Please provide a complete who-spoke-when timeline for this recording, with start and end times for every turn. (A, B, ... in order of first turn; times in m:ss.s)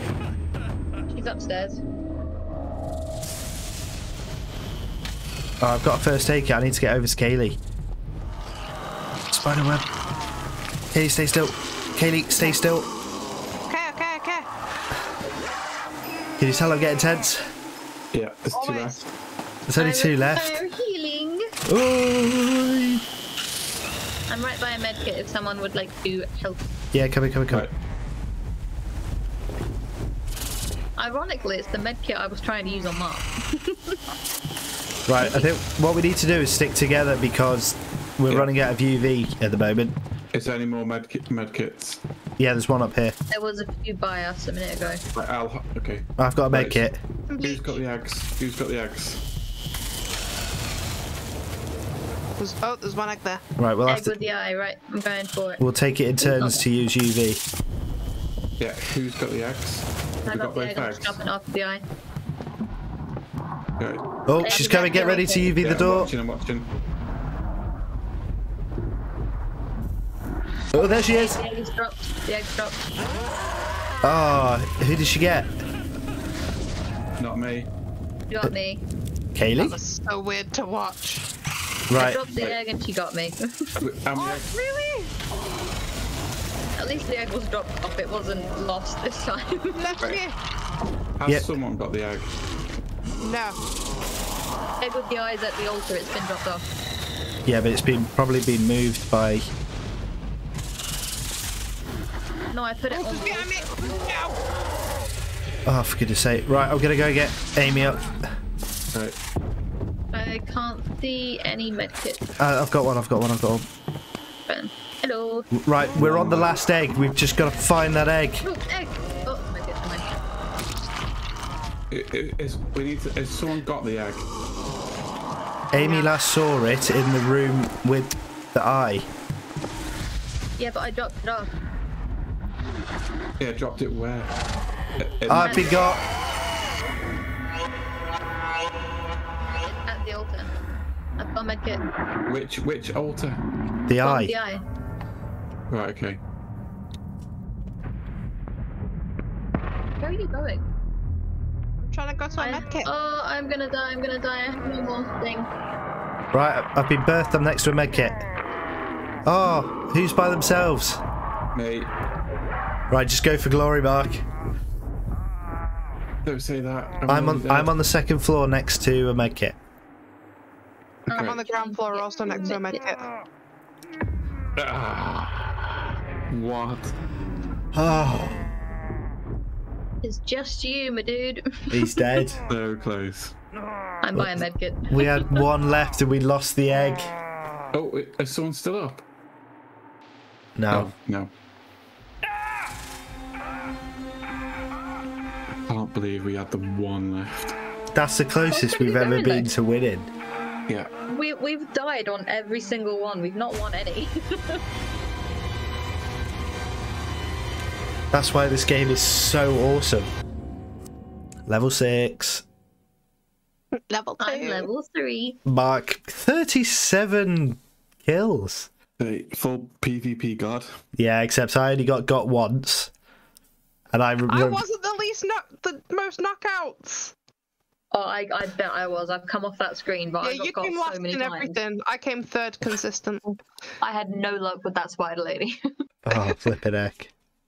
0:01.1-0:01.8 A
0:05.6-0:07.6 B
0:09.3-0:09.9 B
0:10.9-0:12.9 B
0:13.7-0:14.5 C
0:16.4-0:17.4 B
0:18.1-0:19.1 D
0:18.5-0:19.0 C
0:19.7-0:20.6 B
0:19.7-0:21.4 A
0:21.7-0:23.0 B
0:24.3-0:26.6 A
0:26.9-0:27.7 B
0:31.0-0:34.0 A
0:35.1-0:39.9 B
0:35.2-0:35.5 A
0:38.3-0:38.5 D
0:40.3-0:42.0 D
0:42.4-0:43.1 B
0:43.3-0:45.0 A
0:45.1-0:49.2 D
0:46.2-0:47.0 B
0:47.3-0:47.8 C
0:52.4-0:53.4 C
0:53.6-0:54.2 B
0:53.9-0:55.6 A
0:55.6-0:57.4 B
0:56.2-0:56.6 A
0:58.6-1:01.2 D
1:00.2-1:01.8 A
1:03.8-1:04.0 D
1:04.3-1:06.1 B
1:04.4-1:05.5 A
1:05.2-1:06.7 D
1:10.7-1:11.4 B
1:10.8-1:12.8 A
1:14.0-1:15.5 B
1:17.2-1:17.7 D
1:18.3-1:18.8 A
1:19.3-1:19.8 B
1:19.6-1:21.3 C
1:21.9-1:22.2 B
1:21.9-1:23.4 A
1:23.8-1:24.5 D
1:24.2-1:25.1 C
1:26.8-1:30.1 A
1:29.7-1:30.3 C
1:31.2-1:32.3 D
1:33.2-1:33.6 C
1:34.8-1:36.7 A
1:37.4-1:39.5 B
1:42.5-1:43.7 A
1:42.9-1:44.4 C
1:45.6-1:48.3 B
1:50.1-1:52.2 A
1:52.4-1:53.6 B
1:54.5-1:55.5 A
1:55.5-1:58.4 B
1:55.9-1:56.6 D
1:58.4-2:00.1 A
2:01.9-2:04.3 D
2:05.7-2:09.1 B
2:05.7-2:06.1 A
2:10.6-2:11.5 A
2:13.4-2:14.3 D
2:15.0-2:15.7 D
2:15.3-2:16.0 B
2:15.3-2:16.0 A
2:19.6-2:20.5 A
2:21.2-2:21.8 A
2:22.2-2:23.4 D
2:23.9-2:24.3 B
2:24.0-2:24.6 A
2:25.7-2:26.2 D
2:30.0-2:30.6 A
2:31.8-2:32.9 C
2:32.4-2:35.5 A
2:36.3-2:38.2 B
2:39.2-2:41.0 B
2:41.5-2:41.9 D
2:42.9-2:44.2 B
2:46.2-2:47.7 D
2:47.1-2:49.5 B
2:51.1-2:52.8 A
2:51.1-2:51.4 D
2:51.1-2:53.1 C
2:54.6-2:55.8 D
2:56.3-2:56.9 D
2:57.7-2:58.4 B
3:00.0-3:02.0 A
3:01.7-3:02.4 B
3:02.5-3:03.3 D
3:04.0-3:05.3 A
3:04.1-3:07.1 B
3:07.7-3:09.0 D
3:10.6-3:10.9 B
3:10.7-3:11.3 D
3:15.7-3:17.6 D
3:17.9-3:20.1 B
3:18.5-3:19.5 A
3:21.1-3:24.6 A
3:28.1-3:30.1 B
3:31.5-3:32.4 B
3:33.8-3:34.7 C
3:34.2-3:35.4 A
3:35.4-3:38.7 B
3:39.0-3:40.7 D
3:41.0-3:42.9 B
3:43.9-3:44.6 B
3:44.3-3:47.1 C
3:47.9-3:51.6 A
3:50.2-3:53.4 C
3:53.8-3:55.5 A
3:56.0-3:57.1 B